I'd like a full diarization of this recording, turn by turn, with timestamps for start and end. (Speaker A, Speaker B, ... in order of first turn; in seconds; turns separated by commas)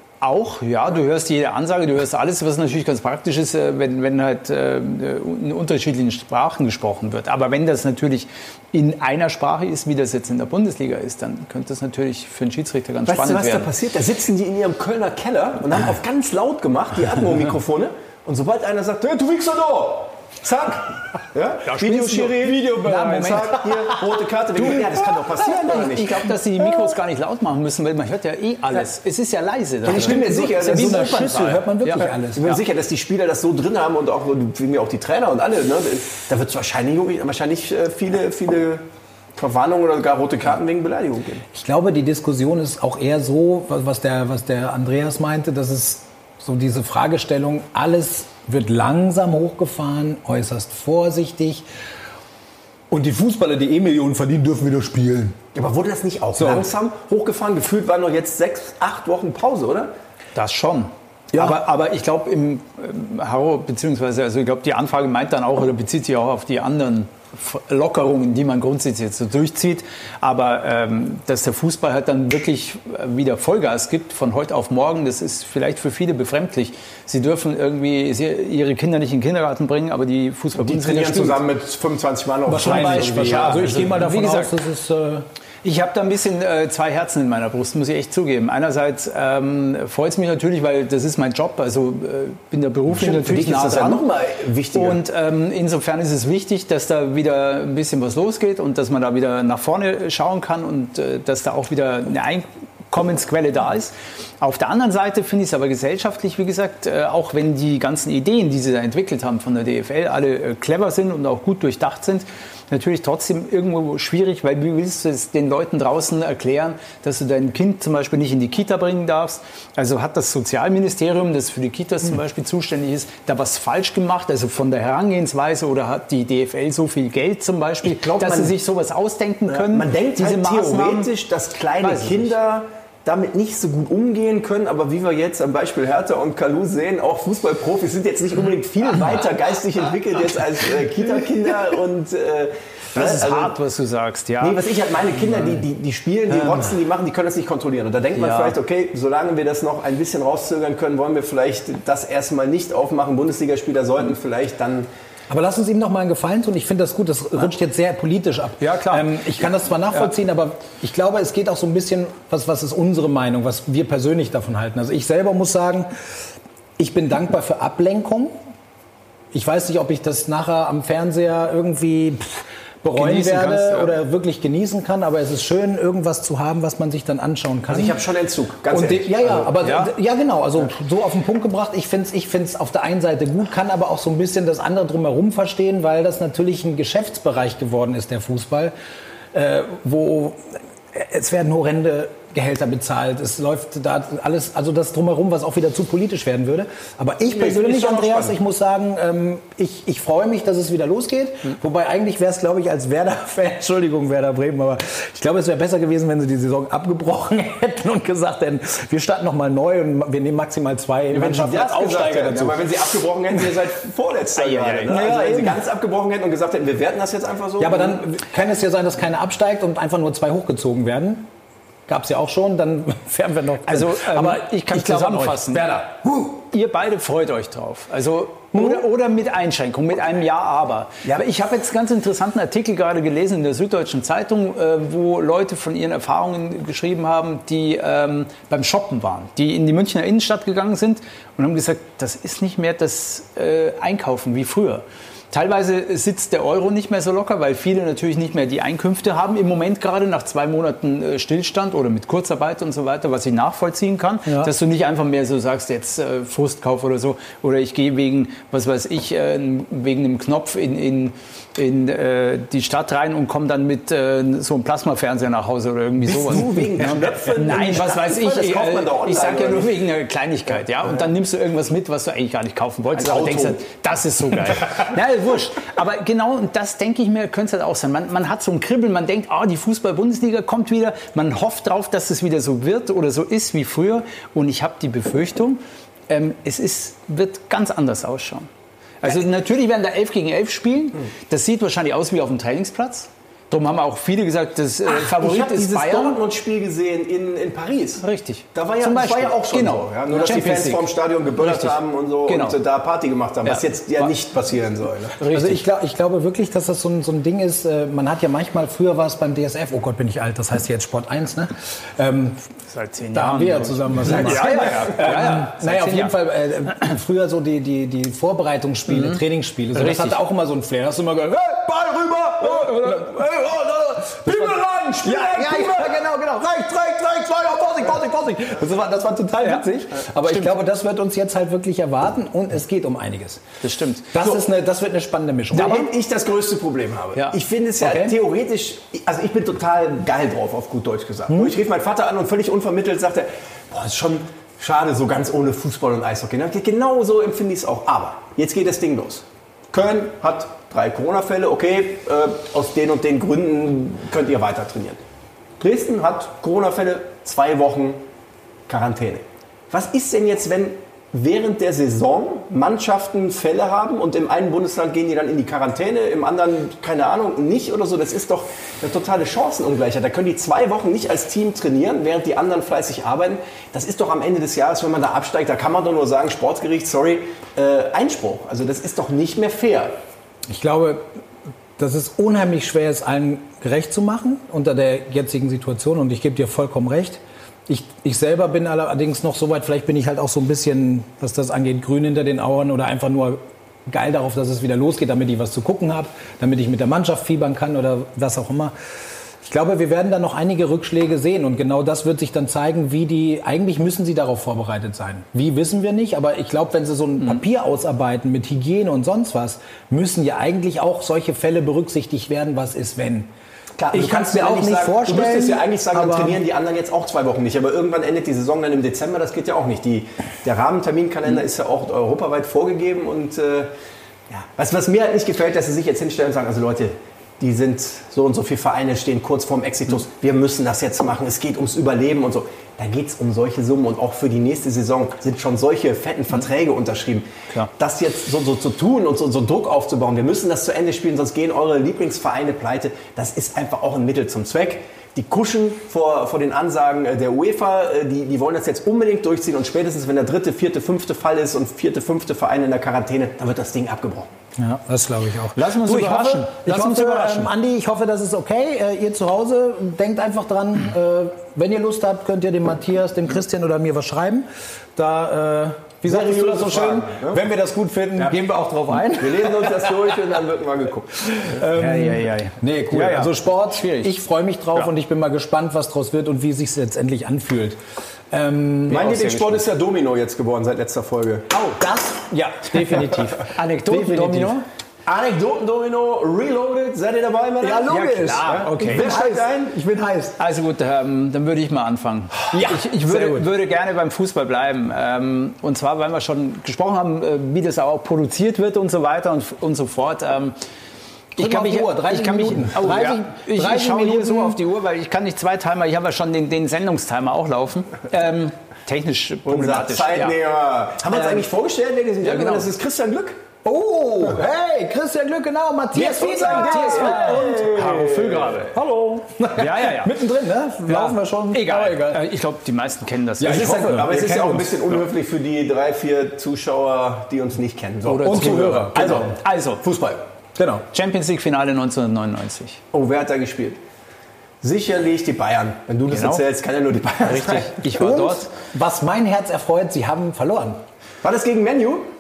Speaker A: 0.2-13.7, Speaker B: 13.1-26.3, Speaker A: 21.6-23.9, Speaker C: 22.5-23.9, Speaker A: 24.6-32.6, Speaker B: 29.8-31.5, Speaker C: 29.9-32.5, Speaker B: 32.4-38.9, Speaker B: 39.4-41.4, Speaker C: 41.5-51.6, Speaker C: 52.9-55.4, Speaker B: 55.5-59.9, Speaker C: 56.4-56.7, Speaker A: 60.4-81.4, Speaker C: 61.3-61.6, Speaker B: 80.6-84.0, Speaker C: 82.5-85.3, Speaker A: 82.5-84.5, Speaker A: 85.6-94.1, Speaker B: 92.9-95.0, Speaker A: 94.7-131.1, Speaker B: 127.8-128.6, Speaker B: 129.5-143.6, Speaker A: 131.8-132.3, Speaker A: 142.9-144.6, Speaker B: 144.4-154.9, Speaker A: 148.2-148.6, Speaker C: 155.3-165.9, Speaker A: 158.6-159.1, Speaker C: 166.8-168.3, Speaker C: 169.3-178.0, Speaker A: 172.9-174.0, Speaker B: 177.7-179.6, Speaker C: 178.7-188.7, Speaker A: 179.6-179.9, Speaker C: 189.3-212.7, Speaker B: 197.3-198.3, Speaker B: 211.1-218.0, Speaker A: 214.4-215.6, Speaker C: 217.6-221.3, Speaker C: 221.9-226.4, Speaker A: 223.7-225.7, Speaker A: 226.5-288.5, Speaker C: 228.6-228.8, Speaker B: 266.0-269.8, Speaker B: 272.9-273.6, Speaker A: 289.0-296.2, Speaker B: 294.9-305.2, Speaker A: 298.0-302.6, Speaker A: 303.4-304.1, Speaker A: 305.2-305.6, Speaker C: 305.3-312.4, Speaker A: 312.7-316.2, Speaker C: 313.1-333.4, Speaker A: 318.9-319.2, Speaker A: 319.7-320.2, Speaker A: 322.5-323.2, Speaker A: 329.4-330.5, Speaker A: 333.6-334.1, Speaker C: 334.1-335.9, Speaker B: 335.5-355.0, Speaker A: 335.6-335.9, Speaker C: 337.8-338.1, Speaker B: 355.6-358.0, Speaker B: 358.7-379.9, Speaker C: 380.5-381.0, Speaker C: 381.8-398.7, Speaker C: 399.4-413.3, Speaker B: 413.8-423.7, Speaker C: 413.9-416.4, Speaker B: 424.3-454.3, Speaker C: 454.6-470.0, Speaker A: 455.6-457.5, Speaker B: 466.1-467.4, Speaker B: 469.1-471.4, Speaker C: 471.2-477.8, Speaker A: 471.7-474.1, Speaker C: 478.3-479.6, Speaker B: 478.9-481.5, Speaker C: 481.5-484.6, Speaker A: 483.0-484.6, Speaker B: 485.1-489.7, Speaker C: 487.6-490.4, Speaker A: 487.9-489.1, Speaker A: 490.4-500.6, Speaker C: 492.5-493.5, Speaker C: 501.4-504.6, Speaker A: 501.4-510.4, Speaker B: 509.5-513.4, Speaker A: 511.1-511.5, Speaker A: 512.2-512.7, Speaker C: 513.6-517.9, Speaker B: 515.9-518.7, Speaker A: 516.2-518.7, Speaker C: 518.7-522.2, Speaker A: 519.6-520.1, Speaker A: 520.9-524.1, Speaker C: 523.4-524.9, Speaker B: 523.4-530.2, Speaker A: 528.1-529.8, Speaker C: 528.2-529.3, Speaker C: 530.6-530.9, Speaker A: 530.9-532.8, Speaker B: 532.9-533.8, Speaker B: 534.6-537.8, Speaker A: 536.1-536.4, Speaker A: 537.2-538.5, Speaker C: 537.9-540.8, Speaker B: 541.2-542.1